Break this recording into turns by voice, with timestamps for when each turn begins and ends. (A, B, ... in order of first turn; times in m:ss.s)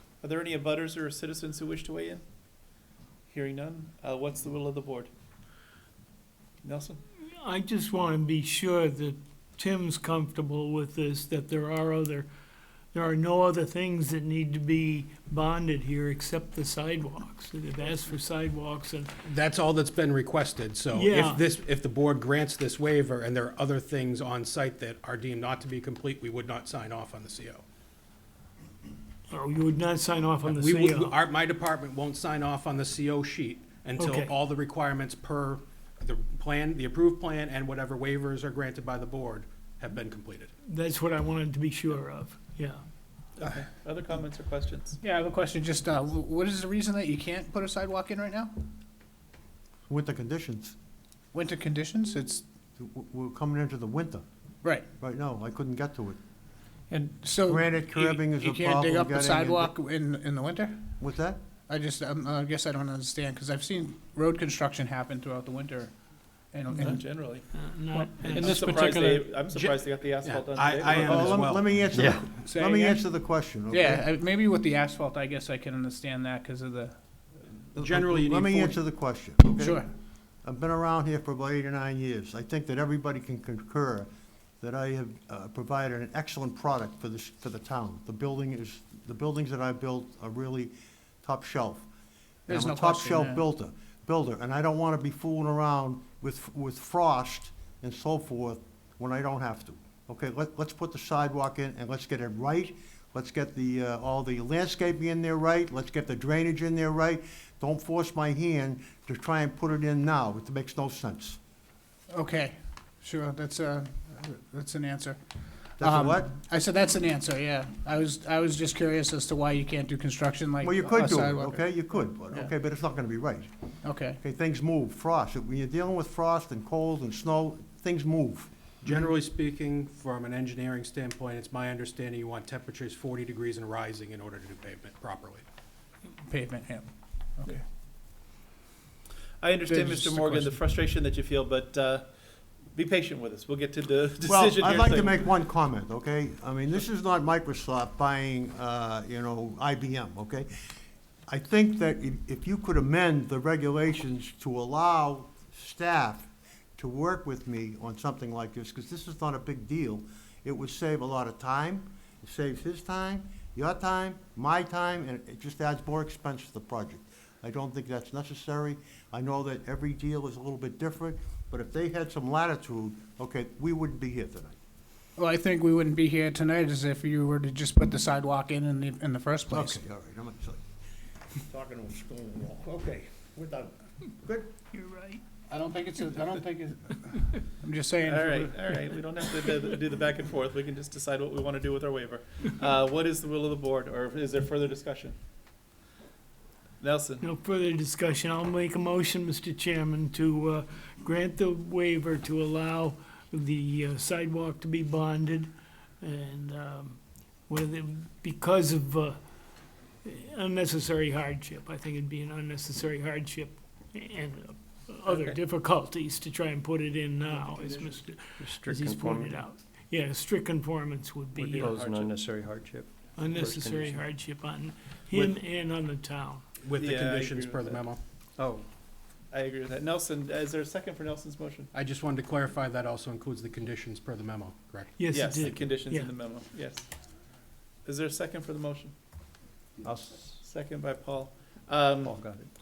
0:00.2-0:02.2 A
0:03.3-0:05.1 A
0:06.6-0:07.0 A
0:07.4-0:12.3 B
0:12.9-0:19.1 B
0:19.2-0:27.6 C
0:20.9-0:21.4 B
0:29.3-0:31.1 B
0:30.4-0:40.5 C
0:34.0-0:34.3 B
0:40.7-0:42.8 B
0:43.4-0:45.0 A
0:45.0-0:48.6 D
0:49.9-0:50.7 E
0:51.3-0:52.4 D
0:52.8-0:54.2 E
0:54.6-0:54.9 D
0:55.0-0:56.2 E
0:56.9-1:01.0 D
0:57.4-0:59.7 E
1:01.0-1:01.4 E
1:01.7-1:06.0 D
1:06.5-1:07.3 D
1:06.7-1:07.5 A
1:07.5-1:09.4 B
1:08.3-1:12.2 C
1:08.3-1:11.4 A
1:10.9-1:14.0 E
1:12.0-1:12.2 F
1:12.4-1:13.1 D
1:13.7-1:17.0 D
1:17.7-1:18.8 C
1:17.8-1:19.8 E
1:19.5-1:19.9 D
1:20.4-1:24.1 E
1:24.6-1:31.9 E
1:32.5-1:33.4 D
1:32.5-1:51.4 E
1:52.1-2:01.7 D
1:55.8-1:56.3 E
2:00.6-2:03.5 E
2:03.8-2:04.2 D
2:04.2-2:08.5 E
2:08.8-2:15.4 C
2:16.2-2:17.6 D
2:19.4-2:22.1 A
2:19.7-2:20.6 D
2:22.8-2:25.3 A
2:24.3-2:30.5 E
2:31.3-2:54.6 E
2:55.2-2:59.8 D
2:59.5-3:00.6 E
3:01.4-3:04.5 E
3:04.7-3:05.2 B
3:05.5-3:08.5 D
3:08.0-3:15.2 A
3:16.8-3:17.2 A
3:17.2-3:41.8 B
3:35.1-3:35.4 A
3:38.4-3:39.5 F
3:41.4-3:44.2 F
3:41.4-3:42.1 A
3:43.2-3:46.4 B
3:46.6-3:48.0 C
3:46.8-3:47.8 A
3:48.4-3:48.7 F
3:49.3-3:51.7 A
3:51.7-3:55.7 C
3:55.0-3:56.1 B
3:55.1-3:56.9 A
3:57.8-3:58.9 A
3:59.8-4:00.4 F
4:00.4-4:02.2 A
4:02.0-4:02.5 F